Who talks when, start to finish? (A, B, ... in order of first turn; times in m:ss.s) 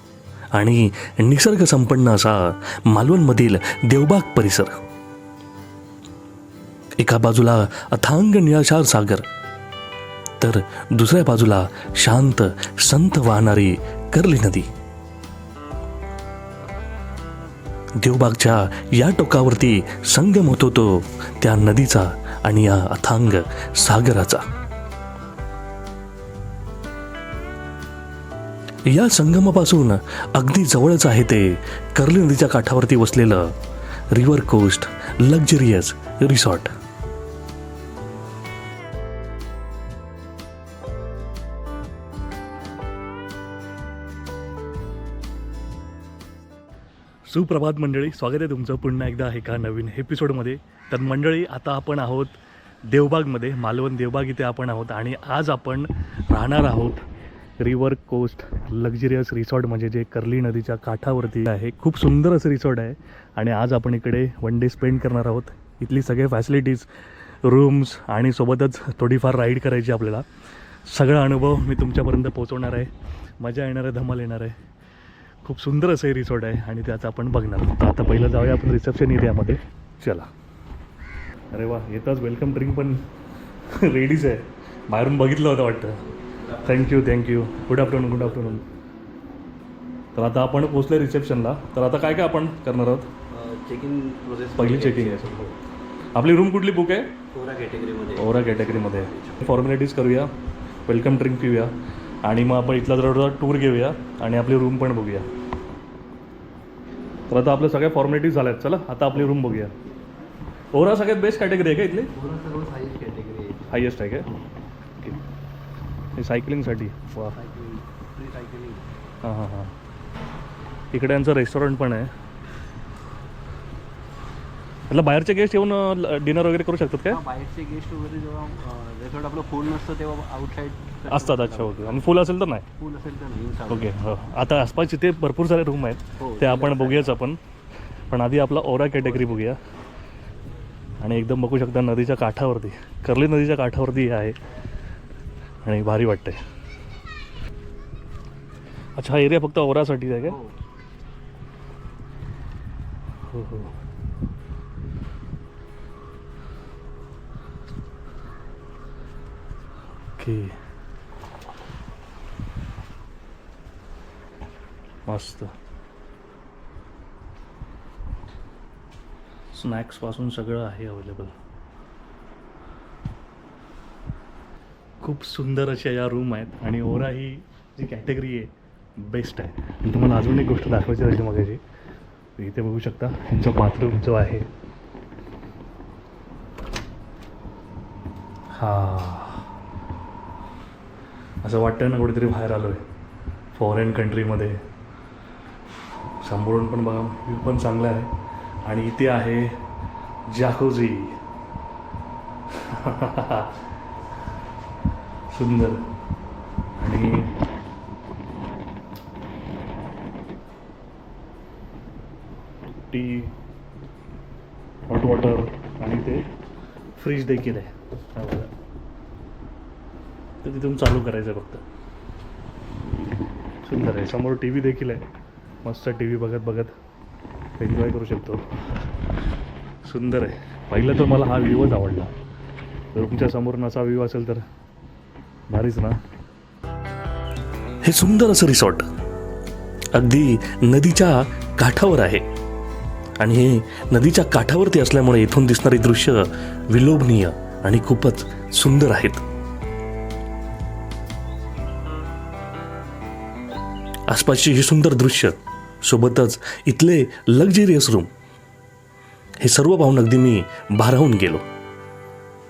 0:00.5-0:04.7 A
0:07.0-0:09.2 A
0:10.4-0:14.7 A
0:18.0-0:24.4 A
0:28.8-0:33.5 A
0:34.1-0:36.7 A
0:47.3-0:52.4 A
0:52.9-0:57.0 A
0:57.6-1:06.9 A
1:07.4-1:10.2 A
1:10.9-1:12.9 A
1:13.4-1:14.5 A
1:15.4-1:20.3 A
1:21.5-1:23.0 A
1:23.7-1:26.0 A
1:26.3-1:28.6 B
1:26.6-1:28.6 A
1:30.1-1:33.1 A
1:33.3-1:35.6 B
1:34.6-1:35.3 A
1:36.1-1:37.1 A
1:37.3-1:39.4 B
1:38.2-1:40.3 A
1:40.9-1:41.7 A
1:42.2-1:45.3 A
1:47.3-1:49.7 A
1:50.7-1:52.1 A
1:52.1-1:53.7 B
1:53.7-1:54.3 A
1:56.2-1:57.3 A
1:57.2-1:58.9 B
1:59.2-1:59.7 A
2:00.9-2:02.1 A
2:04.9-2:07.2 A
2:07.0-2:12.1 B
2:11.1-2:12.6 A
2:12.8-2:14.1 B
2:13.7-2:17.4 A
2:16.2-2:17.2 B
2:18.1-2:19.6 A
2:19.0-2:19.5 B
2:21.0-2:24.3 A
2:25.6-2:26.4 A
2:29.0-2:30.4 A
2:30.2-2:30.5 B
2:33.3-2:33.7 A
2:40.2-2:40.6 A
2:45.0-2:45.5 A
2:49.5-2:51.3 A
2:55.0-3:01.6 A
3:02.4-3:04.5 A
3:08.5-3:09.4 A
3:11.4-3:12.8 A
3:13.5-3:14.6 A
3:16.2-3:18.1 A
3:18.6-3:19.5 A
3:20.3-3:21.2 A
3:22.6-3:23.5 A
3:25.3-3:25.8 A
3:26.8-3:27.3 A
3:32.9-3:33.3 A
3:34.9-3:36.2 A
3:37.0-3:38.5 A
3:40.4-3:41.6 A
3:43.6-3:45.0 A
3:45.6-3:46.7 A
3:47.6-3:48.4 A
3:49.8-3:52.1 A
3:52.9-3:54.4 A
3:55.5-3:56.0 A
3:57.8-3:58.8 A
3:59.9-4:02.2 A
4:03.2-4:09.2 A
4:14.1-4:18.1 A
4:19.4-4:21.4 A